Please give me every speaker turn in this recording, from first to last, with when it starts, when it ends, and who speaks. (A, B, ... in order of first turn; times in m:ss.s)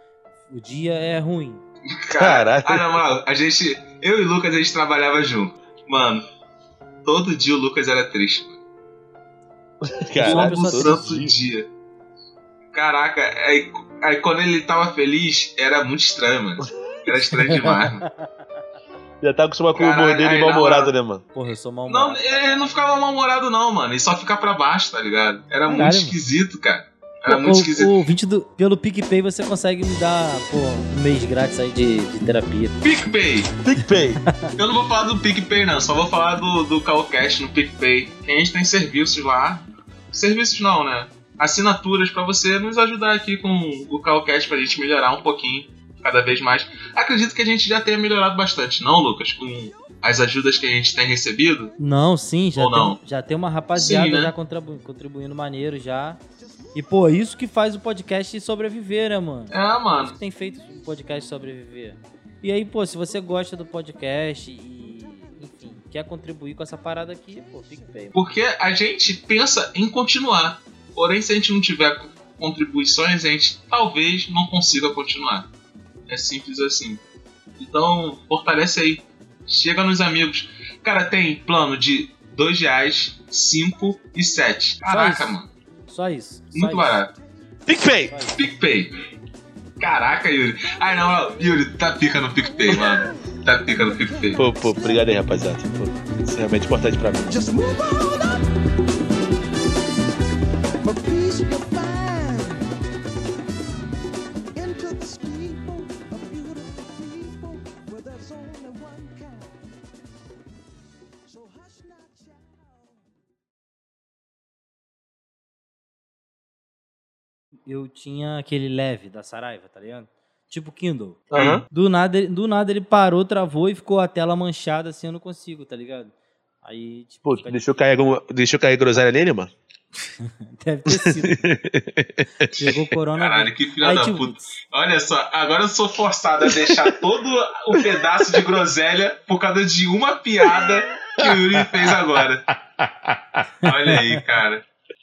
0:00.5-0:01.6 A
0:02.0-0:06.2 B
0:02.2-0:03.0 C
0:07.0-0:08.6 B
0:09.8-0:11.3 C
0:10.2-0:11.2 A
0:10.2-0:11.7 B
0:12.7-0:18.0 B
0:17.2-0:18.3 A
0:19.2-0:21.2 C
0:19.7-0:20.9 B
0:21.3-0:22.7 A
0:21.9-0:27.9 B
0:25.7-0:26.1 A
0:27.2-0:32.8 A
0:32.8-0:33.5 B
0:33.6-0:34.2 C
0:34.6-0:51.7 B
0:51.8-0:56.2 A
0:52.6-0:53.0 B
0:53.7-0:54.3 B
0:56.7-1:08.2 A
0:59.5-1:00.1 B
1:08.1-1:15.5 B
1:16.1-1:17.0 B
1:17.6-1:25.5 B
1:24.9-1:27.1 A
1:26.5-1:27.1 B
1:27.7-1:28.2 C
1:28.1-1:28.4 A
1:28.4-1:29.0 B
1:29.8-1:34.4 B
1:34.3-1:37.4 C
1:37.3-1:38.5 D
1:40.8-1:42.7 D
1:44.6-1:49.6 D
1:51.3-1:53.0 D
1:57.7-2:06.1 A
2:01.3-2:01.6 C
2:01.3-2:01.6 B
2:06.6-2:07.6 A
2:07.2-2:09.5 C
2:10.2-2:11.4 A
2:10.9-2:12.6 C
2:12.5-2:14.4 A
2:13.2-2:22.4 B
2:16.5-2:16.9 C
2:20.4-2:23.4 C
2:23.6-2:24.6 B